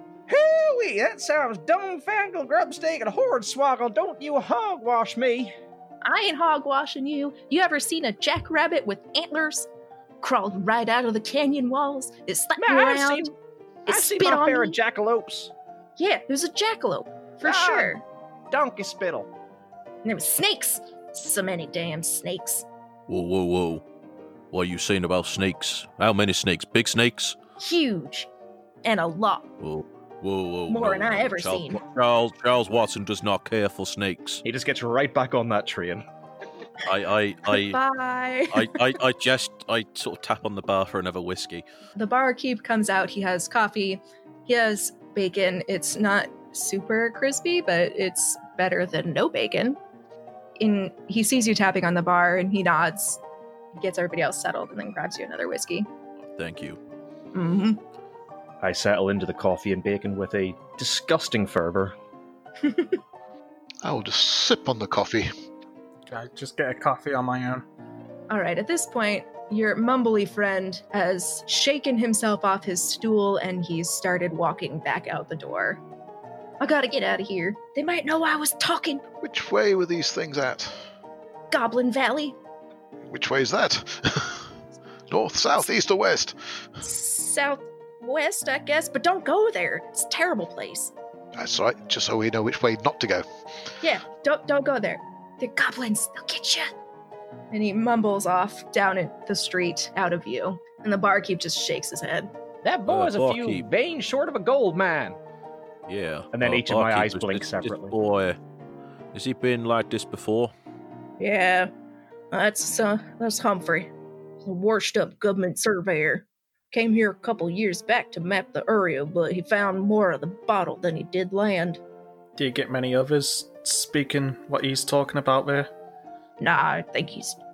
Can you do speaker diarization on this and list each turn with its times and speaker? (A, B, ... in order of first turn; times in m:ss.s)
0:00.3-0:05.5 A
0:06.0-0:09.7 B
0:10.2-0:13.3 B
0:12.6-0:13.3 A
0:13.9-0:14.8 B
0:13.9-0:15.5 A
0:16.0-0:18.0 B
0:17.4-0:17.9 A
0:18.5-0:19.3 A
0:20.0-0:22.6 B
0:23.1-0:23.8 C
0:24.5-0:27.4 C
0:27.6-0:28.3 B
0:28.8-0:29.5 B
0:29.6-0:34.4 C
0:30.7-0:31.8 B
0:34.4-0:36.0 A
0:36.8-0:37.8 C
0:37.5-0:38.9 B
0:38.5-0:41.6 C
0:42.0-0:49.8 B
0:50.6-0:53.2 B
0:53.7-0:55.9 B
0:56.3-0:56.8 C
0:57.3-0:57.8 B
0:58.6-1:01.9 A
1:02.7-1:02.9 B
1:03.8-1:05.3 D
1:06.1-1:07.6 E
1:08.3-1:15.8 B
1:16.6-1:19.0 B
1:19.2-1:20.9 D
1:21.5-1:22.4 B
1:23.1-1:24.5 D
1:25.1-1:26.4 D
1:26.8-1:30.9 B
1:31.4-1:33.2 D
1:33.8-1:36.7 B
1:37.5-1:42.3 B
1:42.6-1:45.2 A
1:42.9-1:43.6 C
1:45.9-1:48.4 C
1:46.3-1:48.0 A
1:49.1-1:50.5 C
1:51.2-1:51.7 B
1:52.3-1:53.9 B
1:54.4-2:01.8 B
2:02.4-2:05.7 E
2:06.4-2:07.4 B